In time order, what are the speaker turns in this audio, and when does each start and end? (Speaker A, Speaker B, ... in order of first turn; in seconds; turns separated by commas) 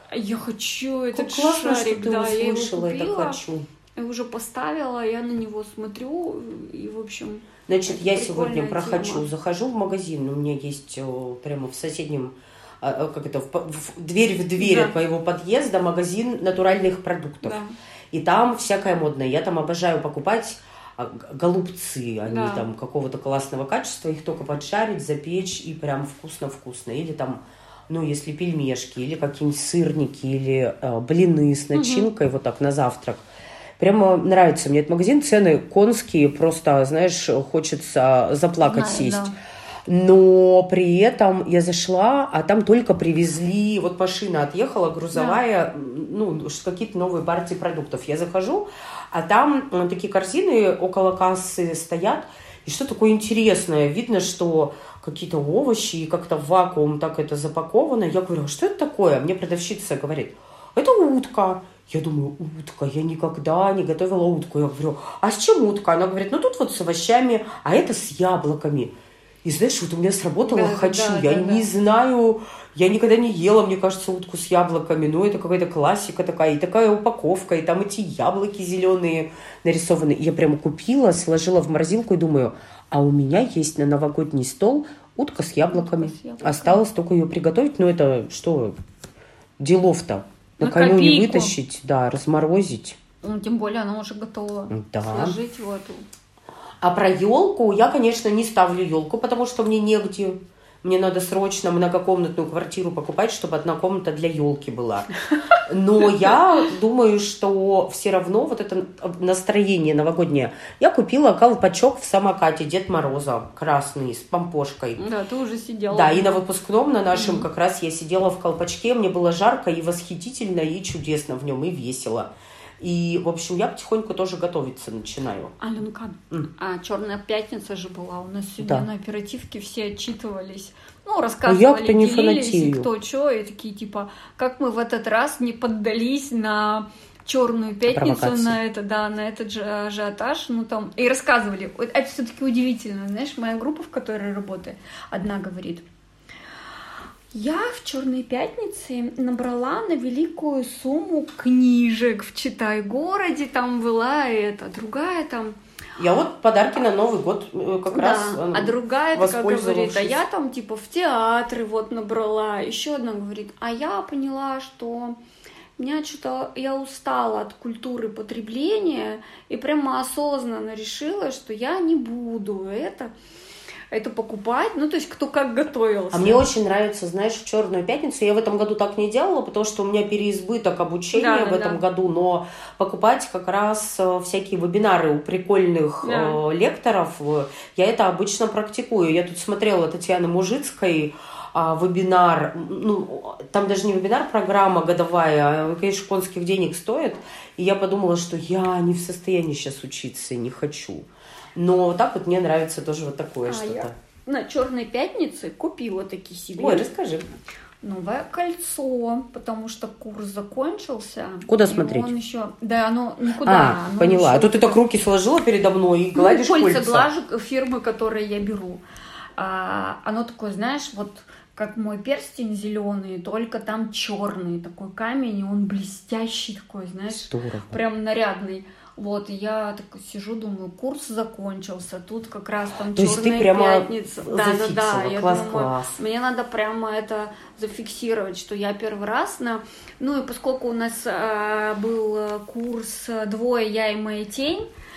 Speaker A: 0.1-3.4, Speaker B: 1.1-3.7, Speaker A: 4.0-9.3, Speaker B: 7.7-17.6, Speaker A: 14.6-14.9, Speaker A: 17.4-17.8, Speaker B: 18.1-33.2, Speaker A: 22.3-22.7, Speaker A: 31.7-32.1, Speaker B: 33.8-39.3, Speaker A: 38.6-39.4, Speaker B: 39.9-88.8, Speaker A: 45.1-45.4, Speaker A: 70.4-71.7, Speaker A: 85.7-86.8, Speaker B: 89.6-93.0, Speaker A: 90.6-91.6, Speaker A: 93.2-96.1, Speaker B: 94.7-95.4, Speaker B: 96.8-105.1, Speaker B: 105.6-115.0, Speaker A: 115.0-116.4, Speaker B: 115.9-125.6, Speaker A: 117.1-117.5, Speaker A: 125.6-145.8, Speaker B: 128.6-128.9, Speaker B: 131.5-132.9, Speaker B: 137.9-138.6, Speaker A: 147.3-155.6, Speaker B: 156.0-160.2, Speaker A: 157.9-165.2, Speaker A: 165.8-173.1, Speaker A: 173.9-176.4, Speaker B: 176.1-203.9, Speaker A: 181.1-181.8, Speaker A: 186.0-186.4, Speaker A: 203.4-206.9, Speaker B: 206.6-207.3, Speaker A: 207.8-214.8, Speaker B: 211.5-212.1, Speaker B: 213.4-217.1, Speaker A: 216.2-218.8, Speaker A: 219.4-244.7, Speaker B: 227.1-227.8, Speaker B: 233.0-236.0